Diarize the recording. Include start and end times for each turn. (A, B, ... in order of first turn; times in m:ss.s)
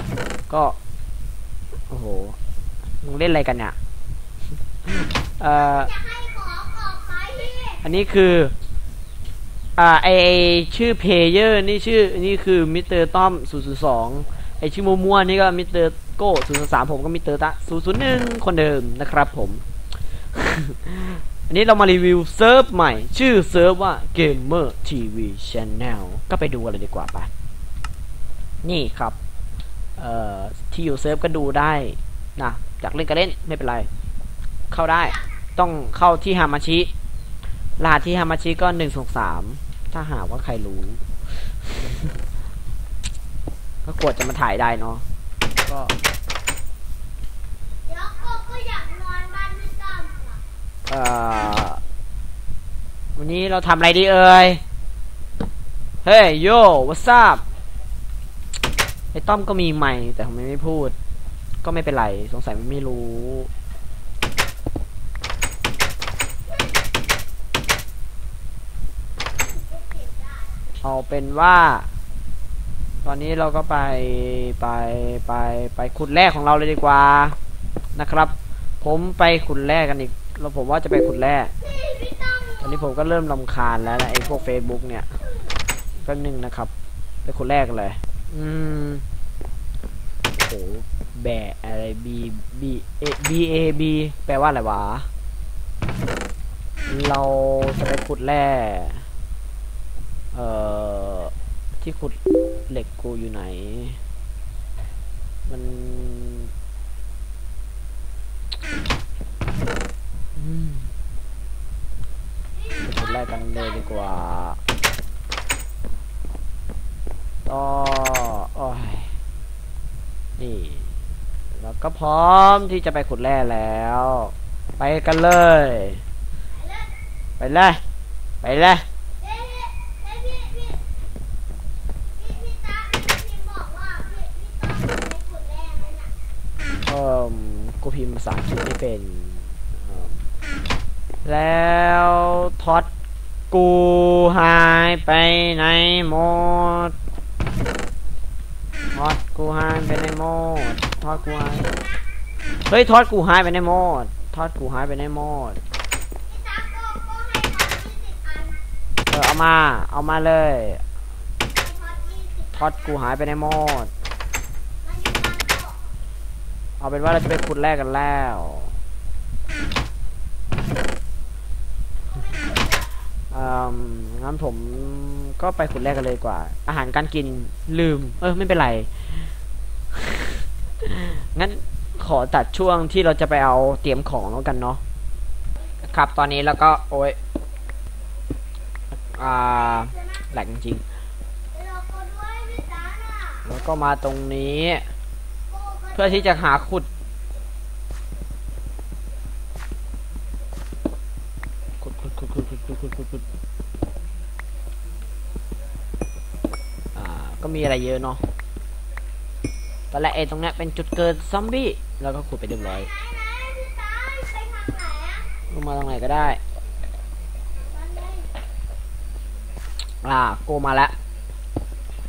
0:00.5-0:00.8 A
0:01.7-0:02.4 A
0:03.0-0:03.7 A
0:04.8-0:05.9 A
0:05.8-0:07.8 B
0:07.8-0:08.5 A
0:09.8-0:19.6 A
0:20.3-0:27.3 A
0:28.6-0:29.2 A
0:30.0-0:33.9 A
0:34.7-0:36.9 A
0:37.8-0:42.2 A
0:43.8-0:45.0 A
0:45.6-0:45.9 A
0:47.8-0:50.4 B
0:50.9-0:51.8 A
0:53.2-0:54.6 A
0:56.0-0:57.4 A
0:59.1-1:00.9 A
1:01.6-1:03.5 A
1:09.5-1:10.6 B
1:10.8-1:11.9 A
1:13.0-1:17.4 A
1:17.9-1:21.5 A
1:21.7-1:22.6 B
1:22.6-1:25.2 A
1:26.0-1:26.7 A
1:27.2-1:29.0 A
1:30.3-1:35.1 A
1:36.9-1:39.1 A
1:40.3-1:42.2 A
1:42.7-1:44.0 A
1:45.5-1:46.5 A
1:50.3-1:50.9 A
1:52.8-1:54.6 A
1:57.4-1:59.1 A
2:00.4-2:00.9 A
2:01.5-2:06.0 A
2:06.6-2:06.9 B
2:07.4-2:07.8 A
2:08.4-2:08.8 A
2:09.2-2:10.8 B
2:12.2-2:16.1 B
2:16.8-2:20.3 A
2:21.2-2:22.9 A
2:23.5-2:26.9 A
2:28.9-2:31.7 A
2:31.4-2:32.0 B
2:32.7-2:35.6 A
2:36.2-2:38.6 B
2:39.1-2:40.8 A
2:41.6-2:42.6 B
2:42.5-2:43.9 A
2:44.8-2:45.8 B
2:46.8-2:48.8 A
2:52.2-2:52.9 B
2:53.3-2:59.3 A
2:59.9-3:04.8 A
3:05.8-3:07.2 A
3:09.1-3:10.8 A
3:11.5-3:13.5 B
3:13.4-3:14.9 A
3:15.5-3:16.0 B
3:15.9-3:16.9 A
3:21.8-3:23.2 A
3:26.9-3:28.2 A
3:29.9-3:32.9 A
3:33.2-3:35.3 B
3:35.5-3:36.4 A
3:37.6-3:38.3 B
3:40.0-3:40.9 A